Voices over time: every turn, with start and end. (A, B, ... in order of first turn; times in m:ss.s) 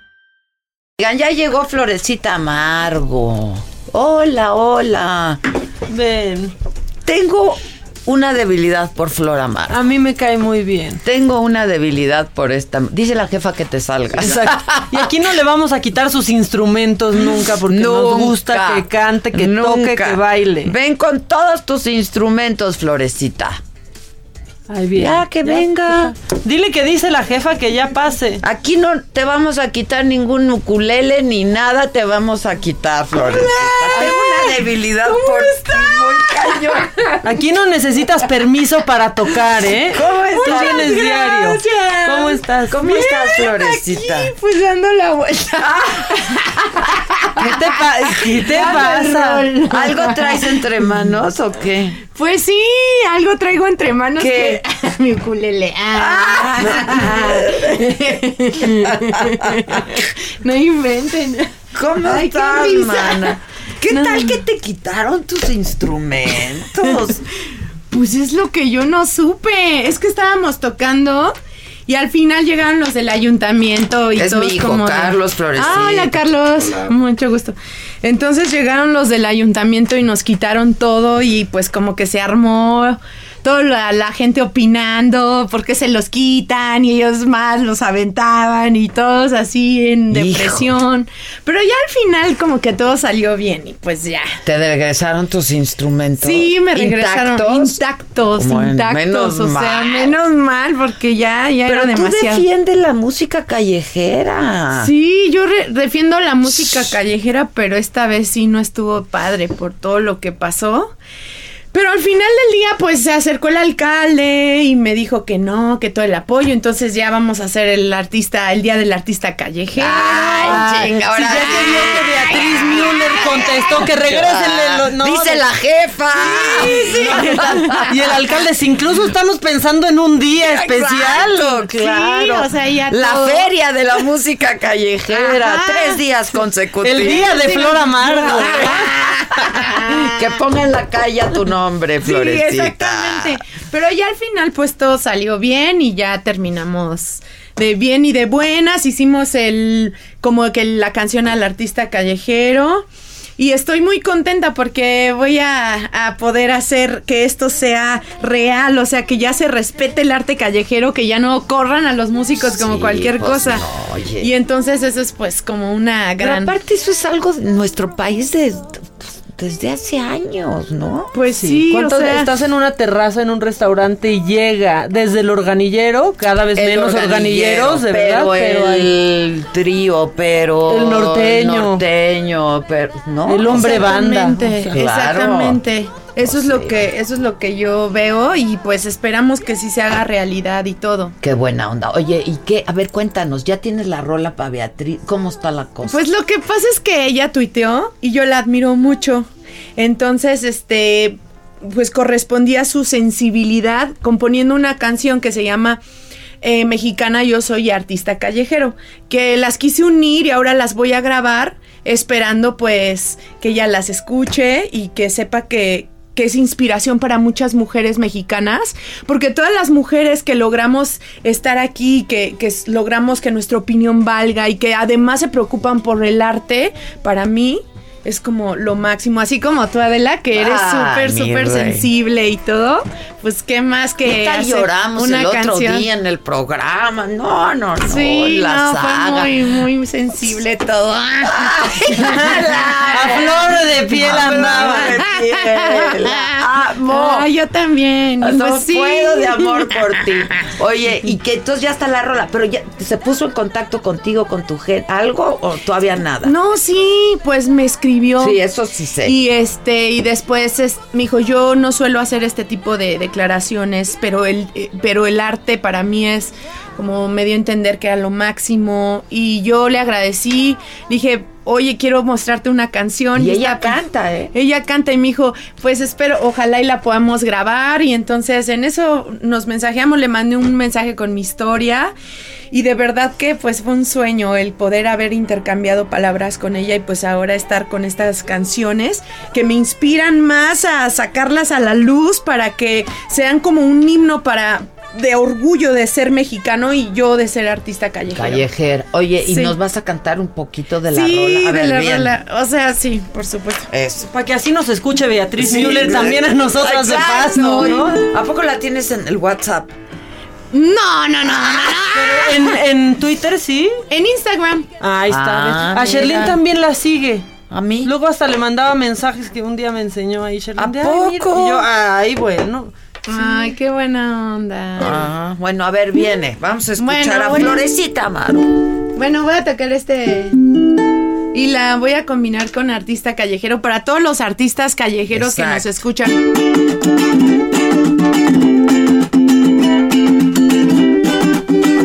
0:01.0-0:05.4 A
0:05.9-0:06.5 B
0:07.0-0:09.8 A
0:09.7-0:11.0 B
0:11.0-0:15.0 A
0:14.1-0:20.7 B
0:17.5-0:23.6 A
0:24.7-0:28.4 B
0:25.0-0:26.2 A
0:28.4-0:36.9 A
0:33.2-0:37.2 C
0:37.2-0:42.8 B
0:39.9-0:41.0 A
0:40.4-0:50.6 C
0:42.7-0:44.3 A
0:45.6-0:46.1 A
0:47.4-0:49.5 B
0:49.7-0:52.0 A
0:52.1-1:03.4 C
0:54.2-0:54.6 A
0:56.0-0:57.8 A
0:58.8-0:59.9 A
1:01.7-1:07.2 A
1:03.9-1:04.4 C
1:07.9-1:11.3 C
1:11.9-1:34.4 C
1:14.2-1:16.2 A
1:30.1-1:30.7 A
1:34.4-1:37.8 A
1:36.2-1:42.5 C
1:38.4-1:40.2 A
1:41.7-1:44.9 A
1:44.8-1:50.9 C
1:51.7-2:01.0 C
1:59.7-2:08.4 A
2:00.4-2:05.4 B
2:01.5-2:03.6 C
2:06.1-2:12.1 B
2:06.5-2:07.9 C
2:10.4-2:17.4 A
2:11.8-2:13.5 C
2:15.1-2:16.4 C
2:16.8-2:18.9 B
2:17.0-2:20.3 C
2:18.4-2:23.4 A
2:22.0-2:32.9 C
2:33.4-2:43.7 C
2:42.4-2:44.3 A
2:44.2-2:46.6 C
2:46.2-2:51.1 A
2:51.1-2:52.3 C
2:51.4-2:58.9 B
2:56.6-3:04.0 A
3:00.7-3:01.8 B
3:03.3-3:04.8 B
3:03.5-3:11.2 C
3:04.7-3:05.6 A
3:06.2-3:06.8 A
3:11.2-3:16.0 A
3:15.8-3:25.8 C
3:26.4-3:55.9 C
3:50.3-3:51.9 A
3:54.0-3:59.6 A
3:57.8-4:03.6 C
4:01.2-4:07.3 A
4:02.1-4:02.4 B
4:02.9-4:05.0 B
4:04.1-4:10.4 C
4:08.2-4:16.3 A
4:16.2-4:18.4 C
4:18.2-4:19.2 A
4:19.0-4:33.8 C
4:33.2-4:34.3 A
4:34.3-4:41.9 C
4:42.5-4:58.5 C
4:58.1-5:02.2 A
4:59.2-4:59.6 C
5:00.9-5:03.7 C
5:03.7-5:04.1 A
5:04.0-5:08.1 B
5:05.4-5:09.7 A
5:07.3-5:07.8 C
5:10.5-5:12.6 C
5:11.2-5:11.8 A
5:11.9-5:13.7 B
5:13.9-5:14.7 C
5:14.8-5:17.3 B
5:15.1-5:16.4 A
5:17.5-5:17.9 A
5:17.8-5:22.7 B
5:20.6-5:21.7 A
5:23.1-5:25.1 C
5:24.8-5:28.5 A
5:26.8-5:27.6 C
5:29.0-5:30.4 C
5:31.3-5:36.2 C
5:35.1-5:35.7 A